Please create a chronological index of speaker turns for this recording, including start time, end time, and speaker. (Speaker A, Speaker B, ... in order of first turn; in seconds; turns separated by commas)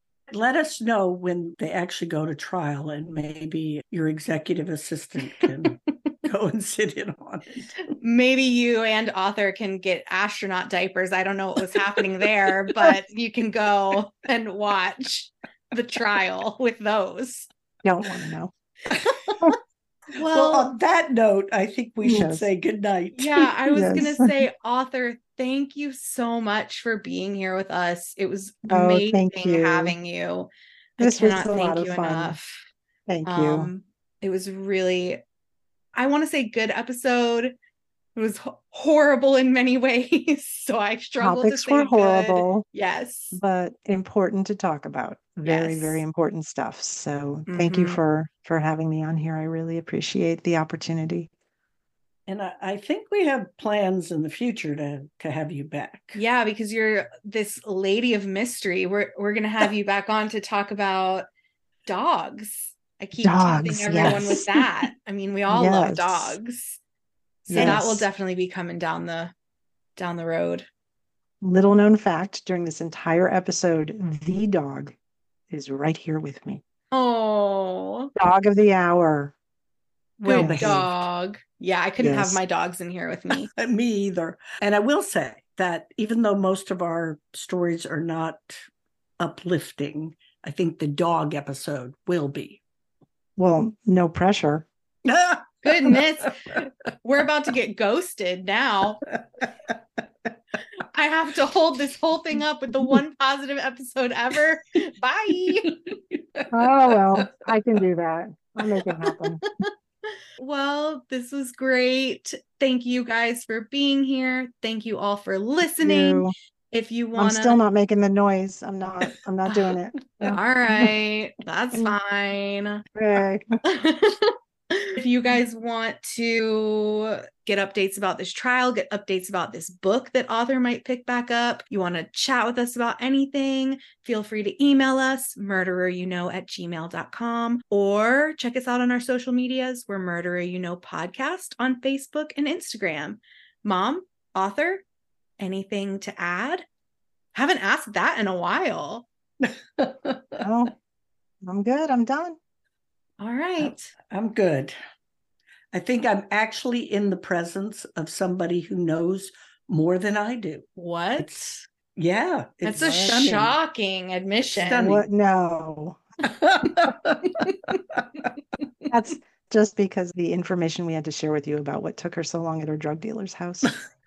Speaker A: 0.3-7.7, Speaker B: 7.9-17.5, Speaker C: 17.8-18.5, Speaker A: 18.9-19.6, Speaker B: 20.2-20.7, Speaker A: 20.3-23.5, Speaker C: 22.0-22.4, Speaker B: 23.2-32.7, Speaker C: 23.7-24.3, Speaker C: 28.7-29.9, Speaker C: 31.0-32.4, Speaker C: 33.1-33.7, Speaker B: 33.2-35.2, Speaker B: 36.0-37.6, Speaker B: 38.2-43.4, Speaker C: 41.2-42.6, Speaker C: 43.3-51.3, Speaker B: 45.4-46.0, Speaker B: 47.5-48.0, Speaker A: 52.3-56.2, Speaker B: 56.1-61.3, Speaker B: 61.9-66.8, Speaker C: 63.2-64.6, Speaker C: 65.5-66.4, Speaker C: 67.5-68.1, Speaker B: 67.5-69.3, Speaker A: 67.5-67.8, Speaker B: 70.0-70.7, Speaker C: 71.4-75.0, Speaker C: 75.5-76.6, Speaker B: 76.9-78.1, Speaker C: 78.2-79.3, Speaker B: 80.2-83.5, Speaker A: 80.2-80.9, Speaker C: 80.3-81.0, Speaker C: 82.0-82.4, Speaker A: 83.3-88.6, Speaker A: 89.2-92.6, Speaker C: 93.4-94.7, Speaker A: 95.0-96.6, Speaker B: 95.6-99.0, Speaker A: 99.1-99.7, Speaker B: 100.9-105.7, Speaker A: 105.7-107.3, Speaker C: 106.5-109.4, Speaker B: 110.4-117.6, Speaker C: 115.8-116.3, Speaker C: 117.2-120.9, Speaker B: 120.2-122.8, Speaker C: 123.0-123.5, Speaker B: 123.7-144.8, Speaker B: 145.4-146.6, Speaker B: 147.3-149.1, Speaker A: 149.4-150.4, Speaker C: 150.4-150.7, Speaker C: 151.4-152.4, Speaker B: 153.2-153.9, Speaker A: 154.1-154.8, Speaker A: 155.7-160.7, Speaker B: 160.8-161.6, Speaker A: 161.2-163.6, Speaker B: 162.6-165.0, Speaker C: 162.8-163.4, Speaker A: 164.5-165.0, Speaker C: 164.8-166.0, Speaker A: 166.2-168.0, Speaker B: 167.4-167.8, Speaker C: 168.9-173.7